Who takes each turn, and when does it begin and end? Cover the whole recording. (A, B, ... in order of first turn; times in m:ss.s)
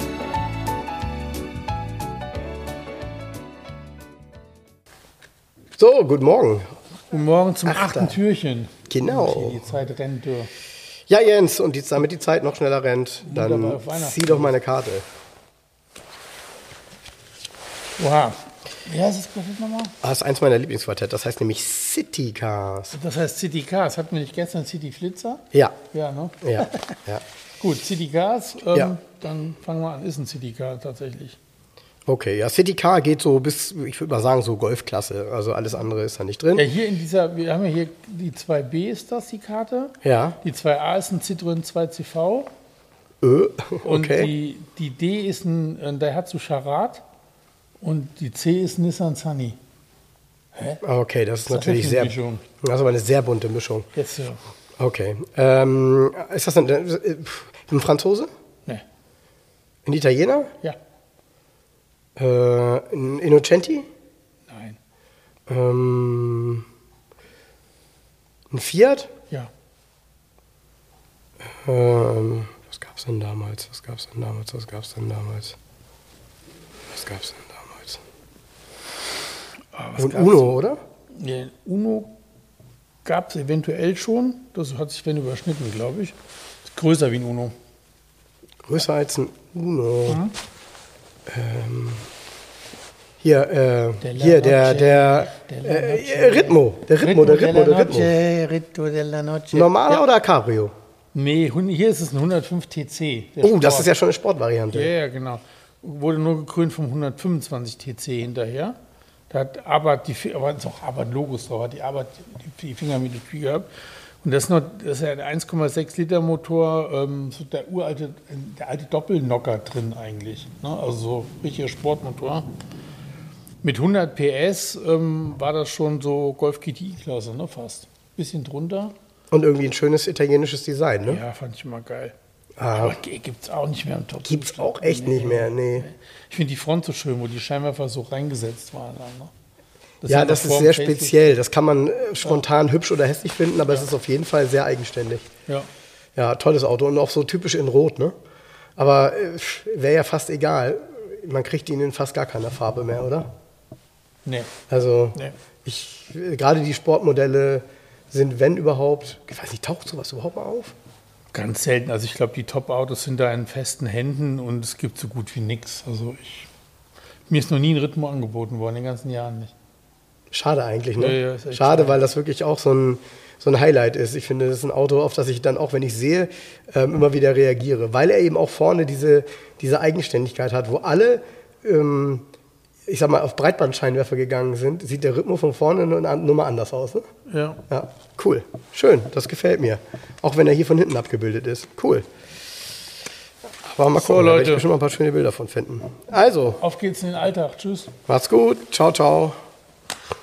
0:05.8-0:06.7 A
0:07.1-0:10.5 B
0:07.6-0:08.2 A
0:08.9-0:09.7 A
0:11.1-0:15.0 A
0:13.2-0:14.5 B
0:18.0-0:19.9 B
0:20.0-0:23.0 A
0:22.9-0:27.0 B
0:26.4-0:27.2 A
0:27.6-0:31.4 B
0:32.0-0:36.7 A
0:36.5-0:42.5 B
0:40.0-0:40.4 A
0:43.2-0:44.3 A
0:43.8-0:47.0 B
0:47.8-0:49.6 B
0:50.5-0:50.8 B
0:50.8-0:53.9 A
0:51.5-0:52.4 B
0:53.9-0:54.4 B
0:54.8-0:58.3 A
0:59.8-1:00.5 A
1:02.2-1:03.8 A
1:04.5-1:04.8 B
1:05.5-1:06.6 A
1:08.5-1:09.1 A
1:11.6-1:15.6 A
1:16.9-1:18.0 A
1:19.7-1:20.5 B
1:20.0-1:20.8 A
1:21.1-1:22.1 B
1:23.0-1:27.5 B
1:28.7-1:30.2 A
1:30.1-1:30.3 B
1:31.3-1:32.1 A
1:33.2-1:38.2 A
1:34.0-1:40.0 B
1:39.5-1:40.7 A
1:41.1-1:43.9 B
1:43.4-1:44.9 A
1:44.7-1:48.8 B
1:49.3-1:53.7 B
1:54.2-2:02.5 B
2:03.6-2:08.9 B
2:09.3-2:11.2 A
2:11.1-2:12.1 B
2:12.6-2:13.0 A
2:12.7-2:19.3 B
2:14.2-2:15.9 A
2:20.0-2:21.3 B
2:20.1-2:25.3 A
2:26.2-2:28.1 A
2:28.8-2:33.3 A
2:34.2-2:34.5 B
2:34.7-2:40.7 A
2:41.3-2:46.5 B
2:47.3-2:49.5 B
2:50.3-3:02.2 A
2:51.0-2:52.0 B
3:02.9-3:07.0 A
3:07.3-3:07.6 B
3:07.7-3:12.0 A
3:13.6-3:16.6 A
3:13.9-3:14.7 B
3:16.6-3:17.9 B
3:18.1-3:19.4 A